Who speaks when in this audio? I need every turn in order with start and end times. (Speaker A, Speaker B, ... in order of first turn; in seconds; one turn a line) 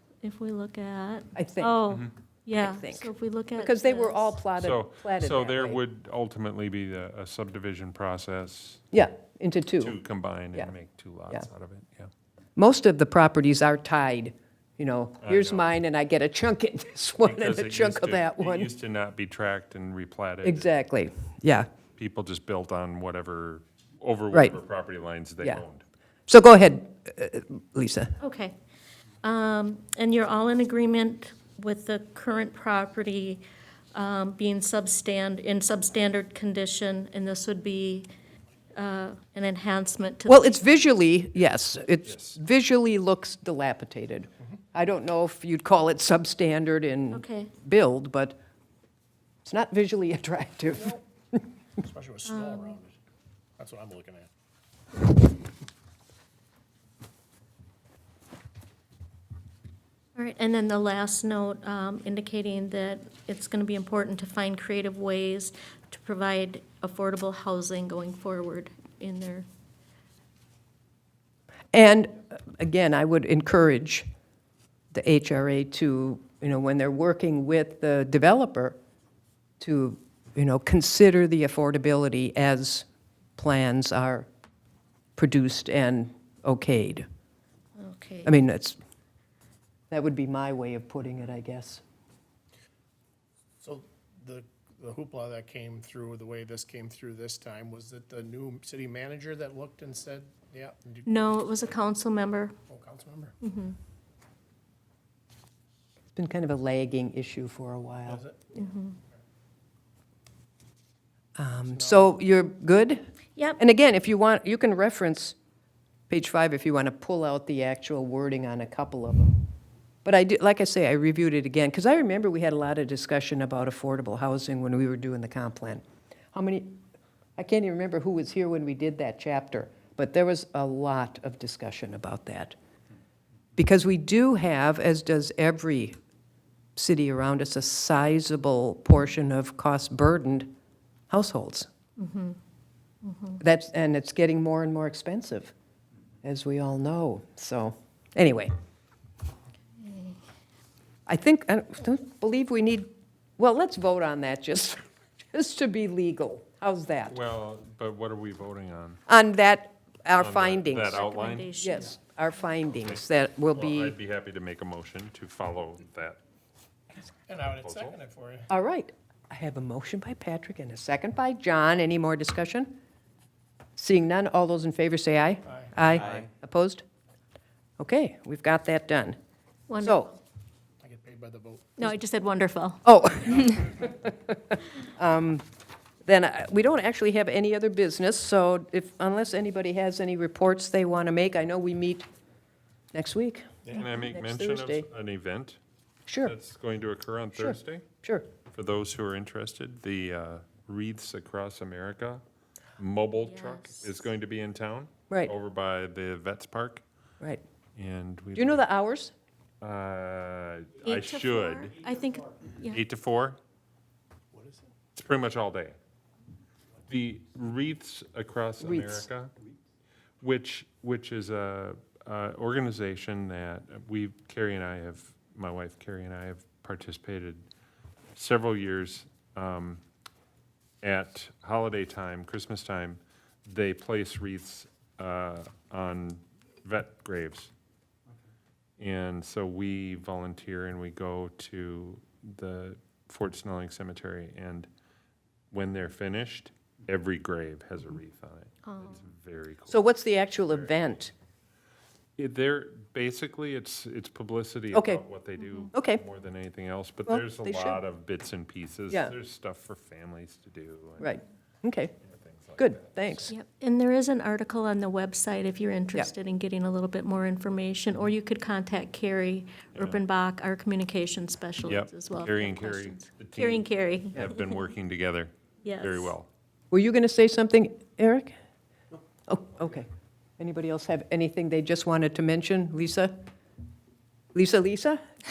Speaker A: 0.2-4.3
Speaker B: 1.4-1.8
Speaker B: 2.6-5.8
Speaker C: 4.6-8.8
Speaker B: 8.9-10.0
Speaker C: 9.8-12.1
Speaker B: 12.6-18.7
Speaker C: 15.2-15.7
Speaker C: 17.2-20.7
Speaker B: 20.4-21.7
Speaker C: 22.0-25.8
Speaker B: 24.3-24.6
Speaker B: 26.3-28.2
Speaker A: 28.2-28.5
Speaker A: 29.2-33.4
Speaker A: 33.9-38.1
Speaker A: 38.8-40.8
Speaker B: 40.3-48.4
Speaker C: 42.1-42.4
Speaker A: 47.1-47.5
Speaker B: 49.5-51.0
Speaker D: 51.8-53.0
Speaker A: 52.3-52.8
Speaker D: 53.6-54.3
Speaker A: 60.2-69.5
Speaker B: 71.7-74.1
Speaker B: 74.9-78.8
Speaker B: 79.6-82.9
Speaker B: 83.4-84.3
Speaker B: 85.2-87.0
Speaker A: 87.8-88.3
Speaker B: 88.3-88.8
Speaker B: 89.9-91.8
Speaker D: 93.6-101.1
Speaker A: 101.1-102.5
Speaker D: 102.7-103.3
Speaker A: 103.4-103.8
Speaker B: 106.2-108.2
Speaker D: 108.1-108.4
Speaker A: 108.5-109.0
Speaker B: 111.4-113.0
Speaker D: 111.8-112.0
Speaker B: 113.6-115.3
Speaker B: 116.1-119.4
Speaker B: 120.0-126.8
Speaker B: 127.4-132.6
Speaker B: 133.6-136.0
Speaker B: 136.8-140.5
Speaker B: 141.1-141.7
Speaker A: 142.0-142.4
Speaker A: 143.0-143.4
Speaker B: 143.4-145.5
Speaker B: 146.2-148.5
Speaker A: 149.8-150.2
Speaker B: 151.1-157.2
Speaker C: 157.1-159.0
Speaker B: 159.1-161.0
Speaker C: 160.2-161.5
Speaker A: 160.9-162.0
Speaker B: 161.6-163.9
Speaker C: 163.5-166.2
Speaker D: 167.3-168.5
Speaker C: 167.4-168.0
Speaker B: 168.5-172.8
Speaker B: 173.8-176.8
Speaker D: 175.5-175.7
Speaker B: 177.8-179.2
Speaker A: 179.7-180.2
Speaker B: 179.8-180.1
Speaker D: 180.8-181.8
Speaker A: 181.8-182.8
Speaker B: 182.8-185.4
Speaker B: 186.1-192.1
Speaker B: 192.9-194.9
Speaker C: 193.7-195.6
Speaker B: 196.1-196.3
Speaker C: 196.2-197.9
Speaker B: 197.4-198.3
Speaker C: 198.5-202.2
Speaker C: 202.8-206.8
Speaker A: 203.2-204.0
Speaker C: 207.8-208.7
Speaker B: 208.3-209.1
Speaker C: 209.6-211.8
Speaker A: 210.8-212.8
Speaker C: 212.7-213.4
Speaker D: 214.3-214.7
Speaker C: 215.0-215.8
Speaker C: 216.9-219.3
Speaker B: 218.6-219.1
Speaker C: 220.2-227.4
Speaker C: 228.2-229.8
Speaker C: 230.8-237.5
Speaker C: 238.8-244.7
Speaker C: 245.5-249.8
Speaker A: 248.7-249.0
Speaker B: 249.7-251.1
Speaker C: 252.2-261.2
Speaker B: 254.7-255.0
Speaker A: 255.4-255.7
Speaker B: 255.7-256.0
Speaker B: 257.1-257.8
Speaker B: 261.0-261.9
Speaker C: 262.0-263.3
Speaker B: 262.6-263.3
Speaker A: 263.3-274.4
Speaker C: 269.8-270.0
Speaker C: 271.7-276.3
Speaker A: 275.6-276.1
Speaker B: 276.7-278.4
Speaker B: 279.3-279.9
Speaker B: 280.4-283.1
Speaker B: 284.3-285.0